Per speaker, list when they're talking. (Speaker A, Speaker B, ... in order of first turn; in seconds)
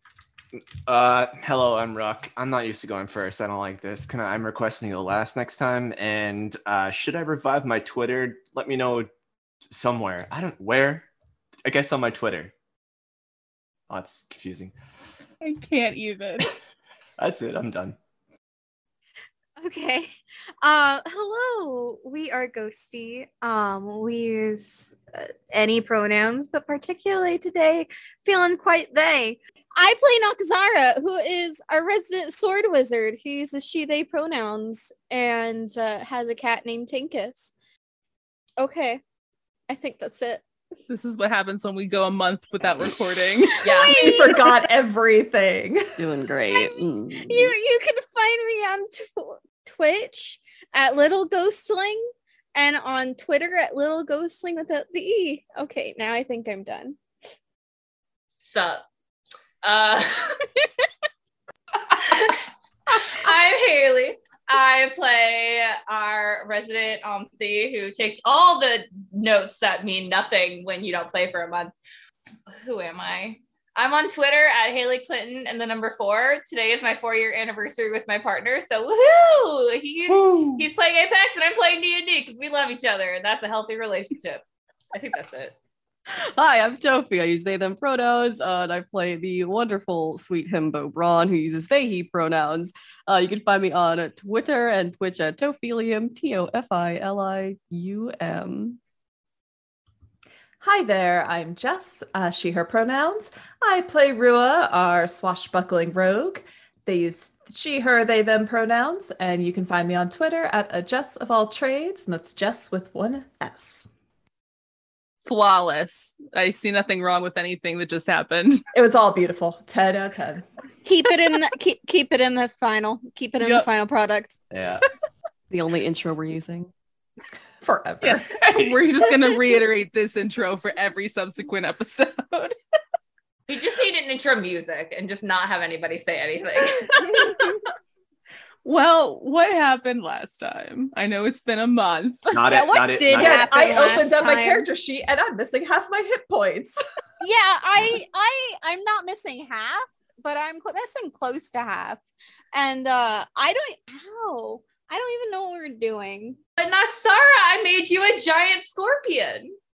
Speaker A: 0.9-9.1, 9.6-11.1, 11.7-12.5, 13.9-14.8, 17.2-18.0, 80.1-80.7, 124.5-124.8, 128.3-129.1, 142.3-144.0
Speaker B: 15.4-16.6, 40.9-43.7, 115.3-118.6, 123.4-123.7, 128.0-132.6, 138.7-142.4
Speaker C: 19.6-37.5, 38.6-39.0, 39.7-40.4, 43.6-44.7, 46.5-57.0, 120.8-124.4, 142.4-144.7, 147.2-152.0, 152.5-156.4
Speaker D: 43.7-46.1, 100.6-113.9, 118.7-120.5, 127.6-128.4, 143.1-146.8
Speaker E: 46.0-47.5, 86.1-98.8, 125.5-126.7
Speaker F: 58.4-58.8, 59.6-60.5, 61.9-71.7, 72.5-85.6, 133.5-137.5, 156.6-159.6